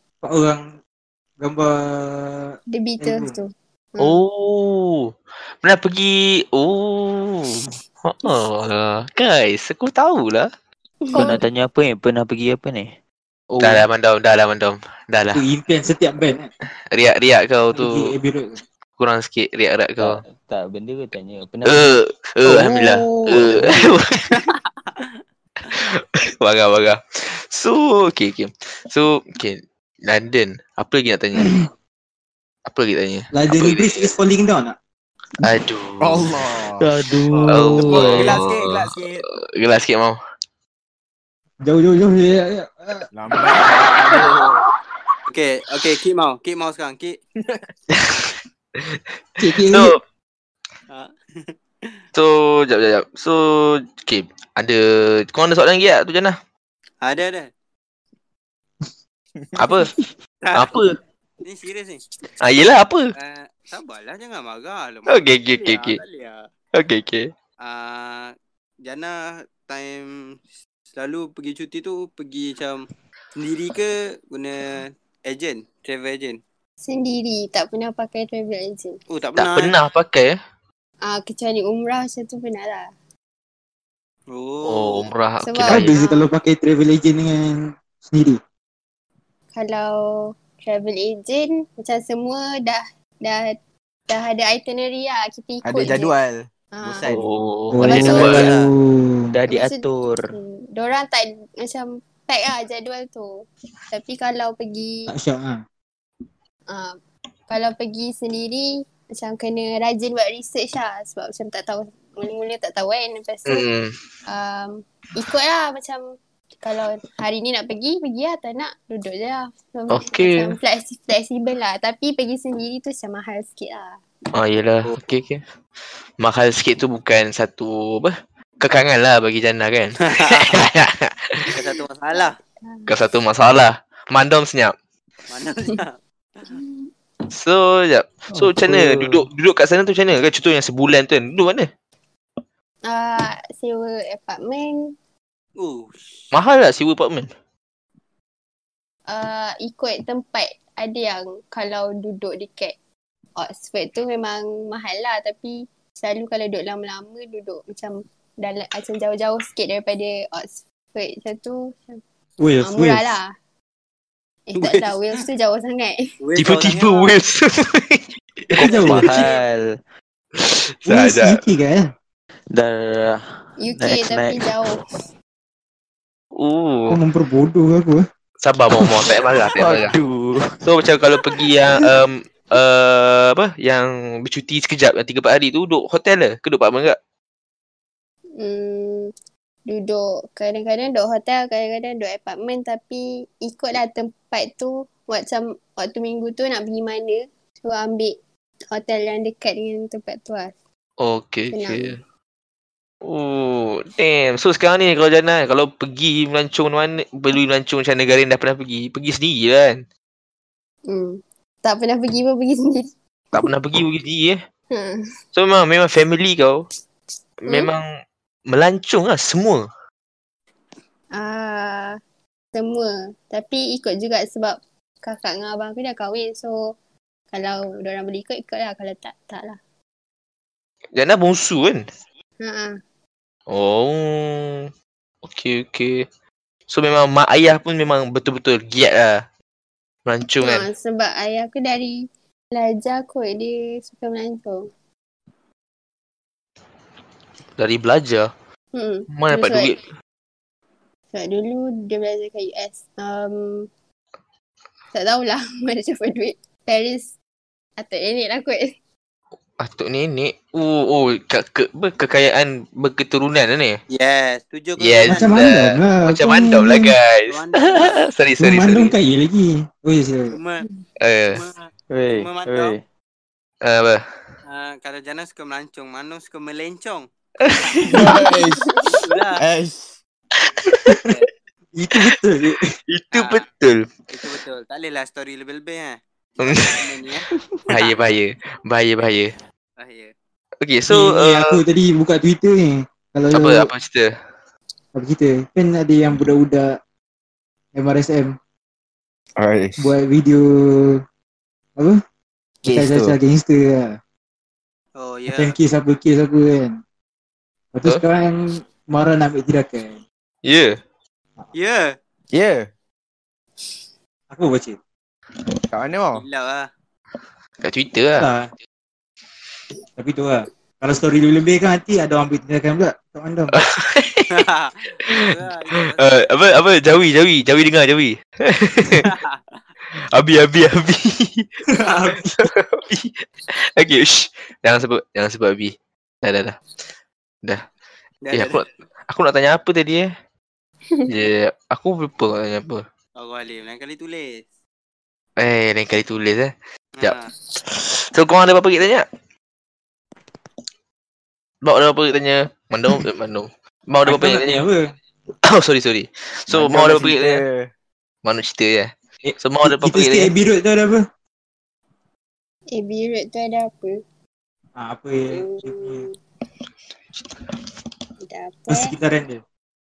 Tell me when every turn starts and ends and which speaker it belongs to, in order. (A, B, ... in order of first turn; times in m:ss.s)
0:00.2-0:00.6 A
0:01.4-0:03.4 A
0:02.7-0:04.2 B
0:04.0-0:10.5 C
0:11.1-0:11.4 B
0:11.1-0:12.9 D
0:13.5-0:13.8 D
0:13.6-0:15.4 C
0:15.4-0:16.5 A
0:16.9-0:18.1 C
0:17.7-0:18.6 A
0:19.0-0:20.2 C
0:20.0-0:22.0 D
0:21.7-0:24.4 C
0:24.3-0:25.1 E
0:25.7-0:31.6 C
0:31.4-0:31.6 A
0:32.7-0:34.1 C
0:33.3-0:34.8 A
0:35.4-0:36.3 C
0:36.0-0:39.2 F
0:36.8-0:38.4 D
0:37.5-0:40.2 C
0:41.6-0:43.1 A
0:43.1-0:44.6 F
0:45.3-0:47.2 E
0:47.4-0:47.7 F
0:48.1-0:49.0 C
0:49.4-0:49.9 A
0:49.6-0:50.0 C
0:50.9-0:51.9 E
0:52.1-0:56.4 C
0:57.0-0:57.5 E
0:59.6-0:59.9 C
1:00.4-1:00.8 E
1:00.5-1:01.0 C
1:01.4-1:02.0 E
1:02.4-1:03.1 C
1:03.2-1:06.5 E
1:05.1-1:06.0 C
1:06.7-1:07.3 C
1:07.6-1:10.4 E
1:10.9-1:16.4 E
1:16.8-1:19.0 B
1:19.1-1:19.8 E
1:19.4-1:20.3 C
1:21.0-1:22.9 B
1:24.3-1:25.1 E
1:24.6-1:26.0 C
1:25.4-1:26.3 B
1:25.7-1:28.4 A
1:29.5-1:33.6 B
1:34.1-1:36.1 B
1:35.6-1:37.3 F
1:36.7-1:37.1 B
1:37.1-1:38.5 C
1:37.7-1:39.3 A
1:37.8-1:38.5 B
1:37.9-1:38.5 D
1:39.3-1:40.3 D
1:39.5-1:45.1 B
1:45.1-1:45.6 A
1:46.7-1:47.0 B
1:47.5-1:53.7 B
1:53.5-1:54.0 C
1:54.3-1:56.0 B
1:56.6-2:04.0 B
1:59.9-2:00.6 C
2:04.3-2:05.4 C
2:06.2-2:11.4 C
2:10.0-2:10.5 E
2:11.5-2:12.4 E
2:12.1-2:12.9 B
2:12.9-2:14.7 C
2:15.3-2:16.0 E
2:16.5-2:16.9 B
2:17.3-2:21.7 C
2:18.3-2:19.3 D
2:22.9-2:25.0 B
2:25.6-2:26.3 E
2:26.3-2:27.3 C
2:29.1-2:32.8 B
2:33.4-2:42.0 B
2:42.4-2:43.2 A
2:42.6-2:43.3 B
2:44.5-2:46.1 B
2:44.6-2:45.2 E
2:46.2-2:47.2 E
2:46.4-2:49.1 C
2:48.6-2:49.1 A
2:48.7-2:49.4 E
2:48.8-2:49.8 D
2:50.4-2:51.4 C
2:50.9-2:51.9 A
2:52.5-2:54.6 D
2:53.6-2:54.8 B
2:56.4-2:57.0 C
2:56.9-2:58.0 A
2:58.4-2:59.9 C
2:59.5-3:00.7 D
3:00.6-3:07.0 C
3:08.4-3:09.1 B
3:09.7-3:18.2 B
3:18.7-3:20.6 B
3:21.0-3:22.0 C
3:21.5-3:22.0 B
3:23.0-3:29.8 C
3:30.9-3:32.9 B
3:33.3-3:34.4 C
3:34.7-3:35.0 B
3:35.3-3:36.6 C
3:37.5-3:37.8 C
3:37.5-3:37.7 B
3:38.5-3:39.7 C
3:41.1-3:42.0 B
3:42.5-3:46.7 B
3:47.3-3:49.6 B
3:50.9-3:51.8 C
3:52.4-3:52.8 B
3:53.5-3:54.7 C
3:55.2-3:56.1 C
3:56.7-3:59.2 C
4:00.1-4:00.7 C
4:00.4-4:02.0 B
4:02.5-4:04.6 B
4:07.6-4:08.3 C
4:08.7-4:09.8 B
4:09.1-4:09.9 C
4:11.1-4:13.7 B
4:14.9-4:17.1 B
4:17.8-4:18.8 B
4:19.6-4:23.8 C
4:23.9-4:25.4 E
4:24.8-4:29.0 C
4:25.1-4:26.9 A
4:27.3-4:28.1 E
4:28.4-4:30.4 A
4:30.3-4:30.7 E
4:31.0-4:31.4 C
4:31.3-4:32.7 E
4:31.9-4:32.8 D
4:33.6-4:34.0 C
4:34.5-4:37.1 E
4:37.4-4:38.0 C
4:37.9-4:38.8 F
4:38.1-4:38.8 B
4:38.9-4:39.4 E
4:39.4-4:39.9 F
4:40.4-4:40.9 C
4:40.8-4:41.1 A
4:41.8-4:42.7 A
4:42.9-4:43.9 C
4:43.1-4:43.4 E
4:44.1-4:47.9 E
4:46.4-4:46.8 C
4:47.7-4:49.4 C
4:49.8-4:50.1 E
4:50.6-4:51.6 C
4:50.9-4:53.7 A
4:53.3-4:54.1 C
4:55.0-4:56.8 A
4:57.8-4:58.4 A
4:59.4-4:59.8 F
4:59.8-5:01.0 A
5:02.7-5:03.1 F
5:02.7-5:04.0 A
5:05.0-5:05.6 E
5:05.3-5:06.8 A
5:07.7-5:10.0 A
5:10.5-5:10.8 C
5:11.5-5:11.9 E
5:12.3-5:12.7 F
5:14.3-5:14.8 A
5:15.7-5:16.2 F
5:16.1-5:16.7 E
5:17.6-5:18.3 C
5:18.2-5:18.5 A
5:20.0-5:23.6 A
5:23.5-5:24.5 C
5:24.3-5:26.1 E
5:25.1-5:29.1 C
5:29.0-5:29.6 E
5:30.1-5:31.5 C
5:31.7-5:32.5 A
5:32.4-5:36.6 C
5:38.2-5:38.7 E
5:38.3-5:40.1 C
5:41.1-5:42.8 C
5:43.2-5:44.4 E
5:45.4-5:49.0 C
5:47.0-5:47.3 E
5:51.6-5:54.6 C
5:54.1-5:54.8 A
5:55.4-5:57.4 C
5:56.5-5:57.7 F
5:58.2-6:00.3 C
5:59.2-6:01.0 A
6:02.7-6:04.0 B
6:04.8-6:06.1 A
6:05.3-6:06.1 B
6:08.2-6:09.0 B
6:08.7-6:09.4 A